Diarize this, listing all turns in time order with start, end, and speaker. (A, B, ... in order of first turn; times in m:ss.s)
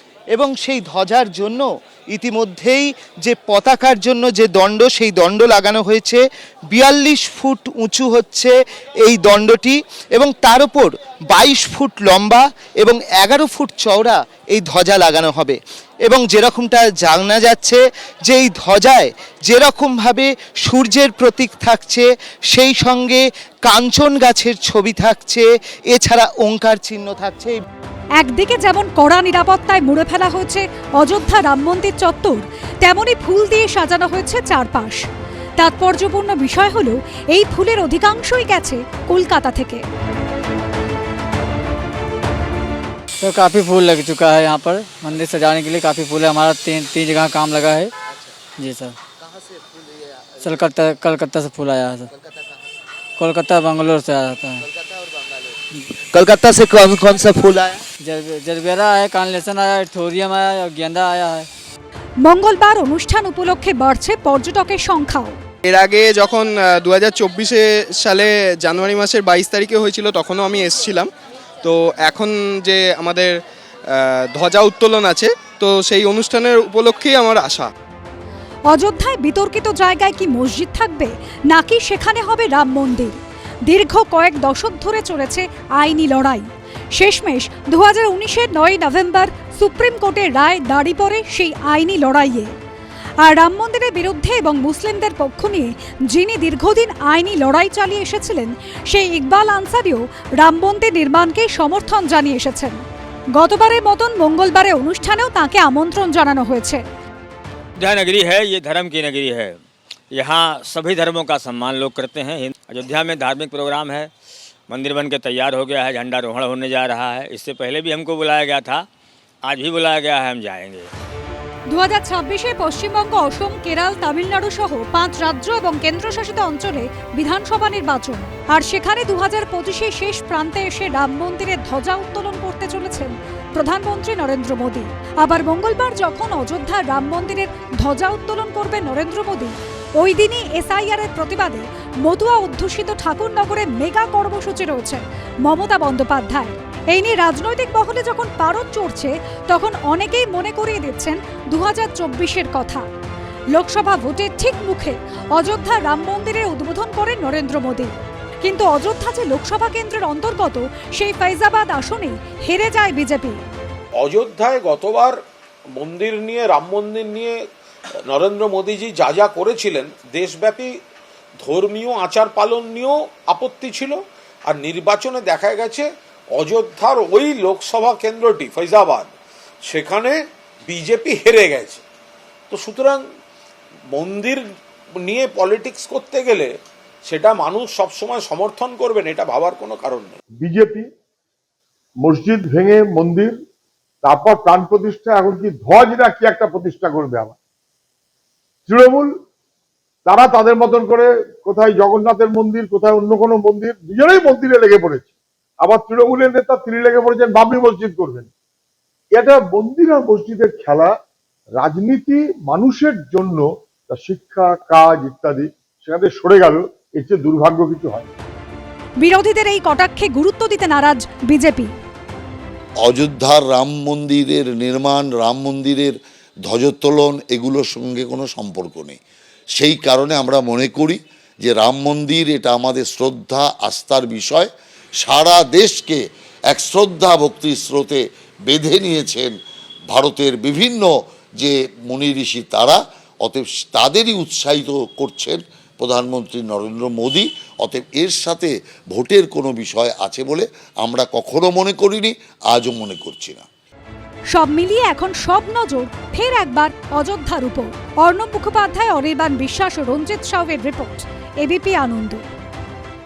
0:00.3-0:27.6 A
0:28.2-0:35.0 B
0:35.6-0:39.8 B
0:43.2-0:47.9 C
0:48.6-0:49.0 C
0:50.4-0:52.1 C
0:53.2-0:54.6 C
0:56.1-0:57.8 A
0:58.0-1:01.5 C
1:02.2-1:05.4 B
1:05.6-1:11.1 D
1:11.6-1:13.4 D
1:14.0-1:17.7 D
1:18.7-1:32.5 B
1:33.2-1:42.8 B
1:43.3-1:46.8 B
1:47.8-1:49.6 E
1:50.1-1:54.1 E
1:54.7-1:58.9 E
1:59.4-2:00.9 E
2:01.7-2:32.8 B
2:33.5-2:43.4 B
2:44.0-2:45.2 F
2:45.8-2:47.4 F
2:48.0-2:50.8 F
2:51.4-2:59.1 F
2:59.6-3:01.8 F
3:02.5-3:03.0 F
3:03.9-3:06.6 F
3:07.1-3:10.2 F
3:10.4-3:10.9 G
3:12.0-3:13.4 G
3:14.0-3:17.4 G
3:18.7-3:19.1 G
3:20.1-3:25.1 G
3:25.6-3:28.3 G
3:29.2-3:30.9 G
3:31.6-3:38.1 G
3:39.0-3:41.7 B
3:42.8-3:45.9 H
3:46.5-3:49.0 H
3:49.6-3:54.5 H
3:55.0-3:56.0 H
3:56.5-3:59.3 H
3:59.9-4:00.9 H
4:01.4-4:13.4 H
4:14.3-4:22.2 B